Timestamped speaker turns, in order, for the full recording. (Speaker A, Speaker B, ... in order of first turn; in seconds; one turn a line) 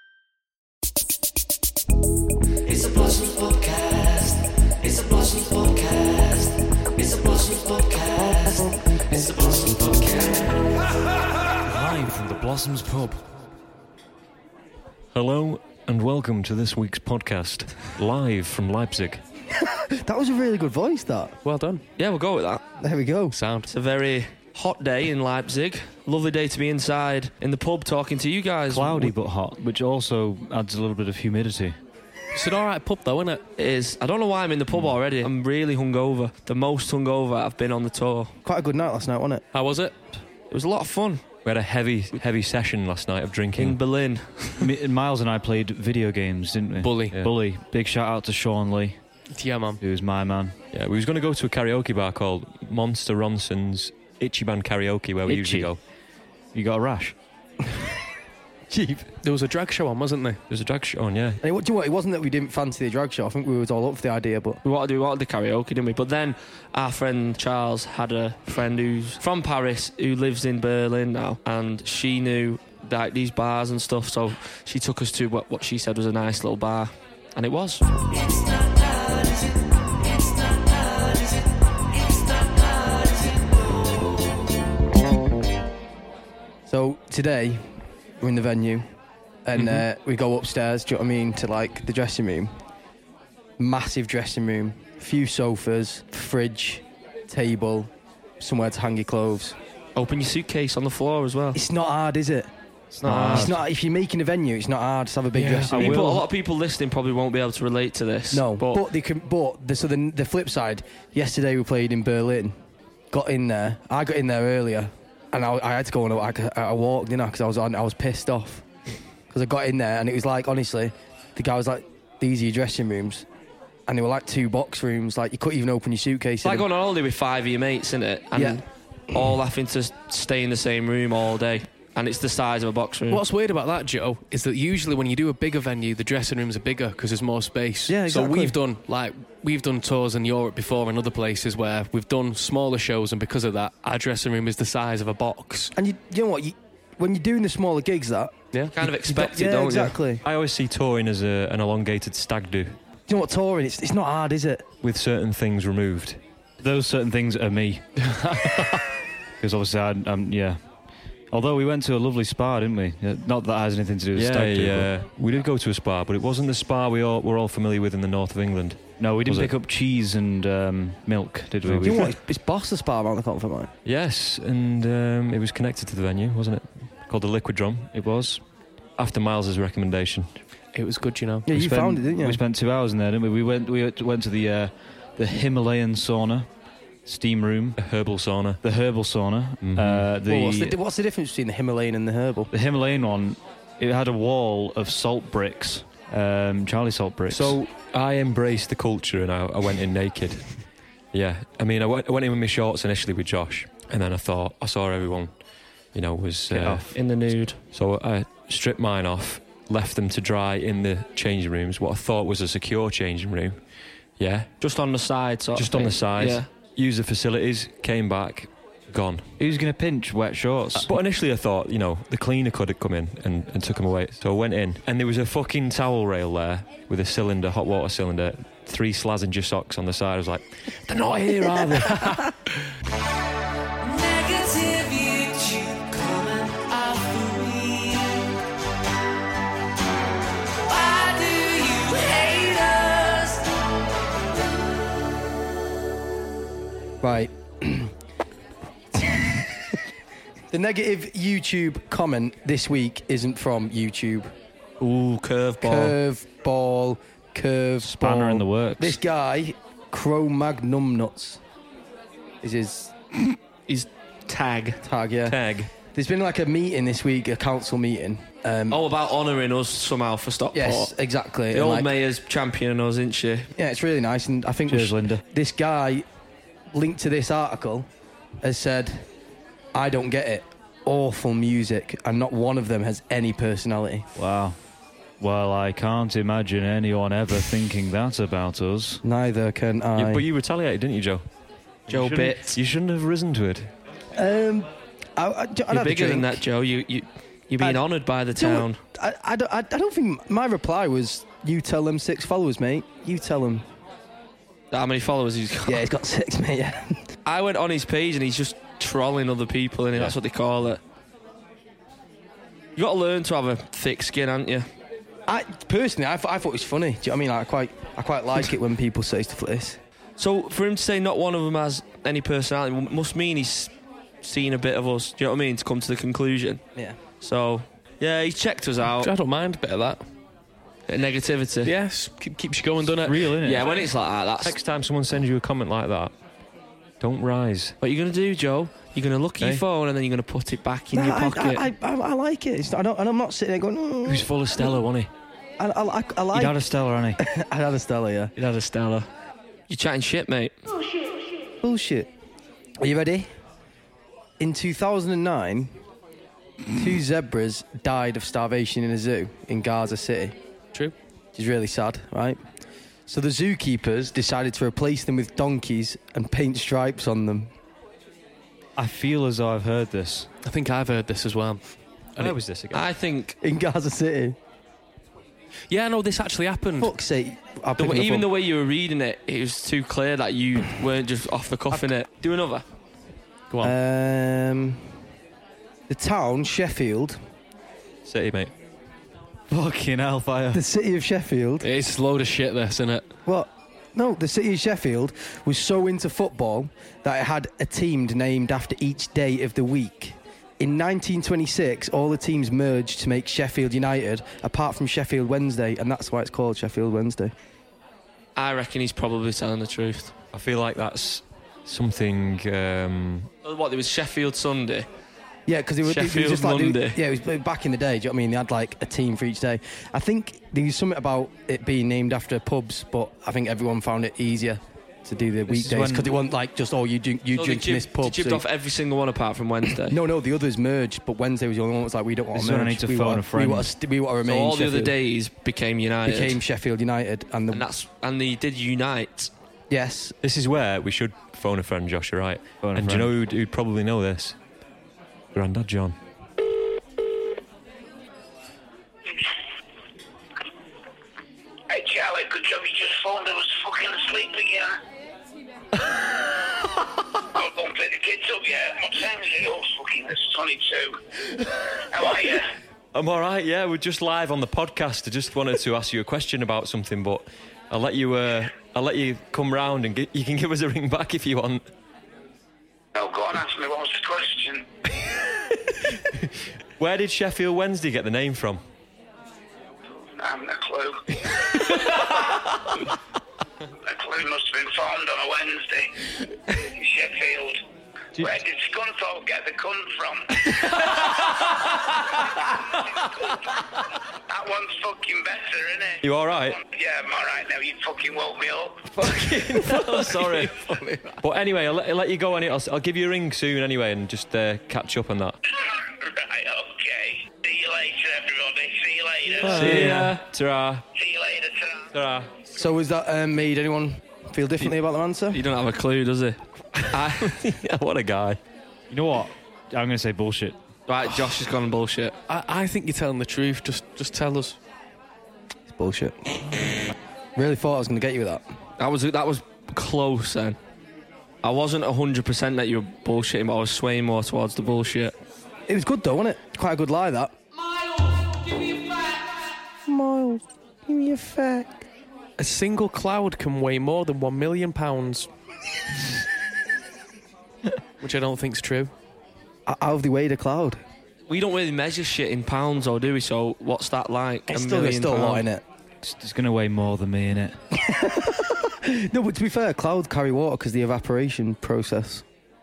Speaker A: 2.6-10.7
Speaker B: 11.7-13.2
Speaker C: 15.1-19.2
Speaker D: 19.7-21.4
Speaker E: 21.4-21.8
Speaker A: 22.0-22.6
Speaker D: 22.8-23.4
Speaker E: 23.3-23.7
Speaker A: 23.6-29.1
Speaker B: 28.7-31.7
Speaker E: 32.3-33.4
Speaker A: 33.6-38.4
Speaker D: 38.4-39.5
Speaker E: 39.5-40.0
Speaker A: 40.5-41.3
Speaker C: 41.5-43.8
Speaker A: 43.6-44.7
Speaker B: 44.6-49.0
Speaker E: 46.8-47.2
Speaker E: 49.3-49.8
Speaker B: 49.8-50.5
Speaker C: 50.7-55.8
Speaker B: 55.3-55.7
Speaker B: 56.5-57.2
Speaker D: 58.7-59.1
Speaker E: 59.2-60.4
Speaker C: 60.5-61.4
Speaker D: 61.4-64.6
Speaker A: 64.7-77.8
Speaker D: 86.7-88.8
Speaker D: 89.5-92.5
Speaker D: 93.6-99.6
Speaker A: 100.0-101.6
Speaker D: 101.5-102.5
Speaker B: 102.9-103.6
Speaker A: 103.0-103.5
Speaker D: 103.1-106.2
Speaker E: 105.3-105.8
Speaker B: 105.7-106.2
Speaker A: 105.7-108.8
Speaker D: 108.3-112.5
Speaker D: 113.1-118.7
Speaker D: 119.3-123.3
Speaker D: 123.9-126.7
Speaker A: 126.4-128.6
Speaker D: 128.3-129.3
Speaker A: 129.1-133.2
Speaker E: 133.1-145.7
Speaker D: 137.9-138.6
Speaker D: 145.8-150.2
Speaker E: 148.5-148.8
Speaker A: 148.7-150.0
Speaker C: 150.2-152.8
Speaker D: 153.1-154.7
Speaker C: 154.8-156.2
Speaker B: 156.6-157.9
Speaker E: 158.2-158.5
Speaker B: 159.4-160.6
Speaker B: 161.3-164.9
Speaker C: 164.2-169.5
Speaker B: 169.0-172.1
Speaker C: 171.7-172.0
Speaker D: 171.8-173.7
Speaker C: 173.8-177.9
Speaker B: 177.9-178.4
Speaker C: 179.0-180.4
Speaker E: 180.7-181.5
Speaker D: 181.5-182.4
Speaker B: 181.5-186.5
Speaker B: 187.1-187.8
Speaker C: 187.8-188.6
Speaker B: 188.6-190.8
Speaker C: 189.6-190.1
Speaker D: 190.3-192.5
Speaker B: 192.5-197.6
Speaker D: 197.3-197.7
Speaker C: 197.9-205.3
Speaker C: 205.9-213.6
Speaker A: 206.5-207.6
Speaker C: 214.2-214.5
Speaker A: 214.6-216.5
Speaker C: 215.6-219.3
Speaker B: 219.4-220.9
Speaker C: 220.8-230.8
Speaker E: 231.2-232.3
Speaker D: 247.0-247.9
Speaker D: 248.9-249.4
Speaker D: 250.5-254.3
Speaker A: 254.8-256.0
Speaker D: 255.6-261.4
Speaker B: 257.8-259.0
Speaker D: 262.4-262.9
Speaker A: 263.7-264.8
Speaker D: 264.8-268.8
Speaker C: 265.3-265.7
Speaker A: 268.7-270.9
Speaker D: 270.5-271.9
Speaker A: 271.5-273.5
Speaker D: 273.6-276.1
Speaker B: 274.7-275.2
Speaker D: 276.7-277.9
Speaker D: 278.4-279.1
Speaker D: 279.7-284.1
Speaker B: 284.2-284.6
Speaker B: 285.2-289.0
Speaker D: 289.0-290.2
Speaker C: 290.0-291.2
Speaker C: 291.9-293.7
Speaker A: 291.9-292.6
Speaker D: 294.1-296.4
Speaker A: 295.7-298.8
Speaker D: 297.6-303.6
Speaker A: 304.7-305.9
Speaker D: 305.7-307.0
Speaker A: 307.2-310.8
Speaker A: 312.8-314.7
Speaker D: 315.3-319.8
Speaker A: 320.2-326.6
Speaker D: 326.8-327.0
Speaker A: 327.2-329.1
Speaker E: 328.9-330.0
Speaker A: 330.9-331.7
Speaker E: 331.6-333.4
Speaker B: 333.1-333.7
Speaker A: 333.4-334.6
Speaker C: 334.4-336.1
Speaker C: 337.0-337.8
Speaker A: 337.8-341.6
Speaker D: 340.9-344.7
Speaker C: 344.1-345.1
Speaker D: 345.6-346.6
Speaker B: 346.3-347.2
Speaker D: 347.2-348.3
Speaker A: 348.4-349.1
Speaker A: 349.7-350.6
Speaker D: 351.6-352.1
Speaker D: 352.8-353.3
Speaker D: 354.4-355.7
Speaker D: 356.8-360.4
Speaker D: 361.4-362.4
Speaker D: 363.1-367.5
Speaker B: 368.8-370.3
Speaker E: 370.4-372.4
Speaker C: 372.2-372.8
Speaker A: 372.7-373.4
Speaker D: 373.4-374.4
Speaker E: 375.7-376.9
Speaker D: 376.8-378.3
Speaker A: 377.8-382.6
Speaker E: 383.5-383.8
Speaker D: 383.6-384.8
Speaker D: 385.9-387.2
Speaker C: 388.1-388.5
Speaker B: 389.5-390.6
Speaker D: 390.5-391.7
Speaker E: 391.6-393.1
Speaker D: 393.3-407.3
Speaker A: 408.4-410.1
Speaker C: 410.3-413.3
Speaker A: 413.4-414.9
Speaker D: 415.5-428.4
Speaker A: 415.8-417.0
Speaker B: 425.5-426.2
Speaker A: 427.3-430.0
Speaker D: 429.9-434.9
Speaker B: 432.3-433.7
Speaker A: 434.2-436.4
Speaker D: 436.1-437.7
Speaker A: 437.5-439.3
Speaker D: 439.7-440.1
Speaker C: 440.2-444.4
Speaker B: 442.6-443.1
Speaker C: 445.3-446.0
Speaker F: 451.7-454.8
Speaker F: 457.4-461.0
Speaker F: 461.9-462.5
Speaker C: 462.9-471.6
Speaker F: 472.9-474.7
Speaker C: 476.8-478.6
Speaker F: 480.0-481.6
Speaker F: 483.8-485.9
Speaker F: 486.6-487.6
Speaker F: 488.1-490.4
Speaker F: 494.3-496.0
Speaker C: 496.0-496.6
Speaker F: 496.6-498.9
Speaker C: 499.0-500.5
Speaker A: 499.0-500.8
Speaker E: 500.2-501.0
Speaker C: 501.2-505.4
Speaker F: 505.9-509.6
Speaker C: 509.4-510.9
Speaker A: 509.4-510.2
Speaker E: 509.4-510.1
Speaker F: 510.9-511.9
Speaker C: 511.9-512.3
Speaker D: 512.5-515.5
Speaker A: 515.3-517.6
Speaker C: 517.5-518.4
Speaker B: 518.9-520.6
Speaker A: 520.9-522.2
Speaker E: 522.3-524.6
Speaker D: 525.7-526.5
Speaker D: 527.4-528.4
Speaker A: 528.8-530.6
Speaker A: 531.4-535.2
Speaker D: 535.7-537.4
Speaker D: 539.9-541.9
Speaker E: 542.4-545.3
Speaker E: 548.0-548.9
Speaker D: 549.7-550.8
Speaker A: 551.3-555.5
Speaker D: 554.5-555.6
Speaker B: 556.0-557.6
Speaker D: 557.9-562.2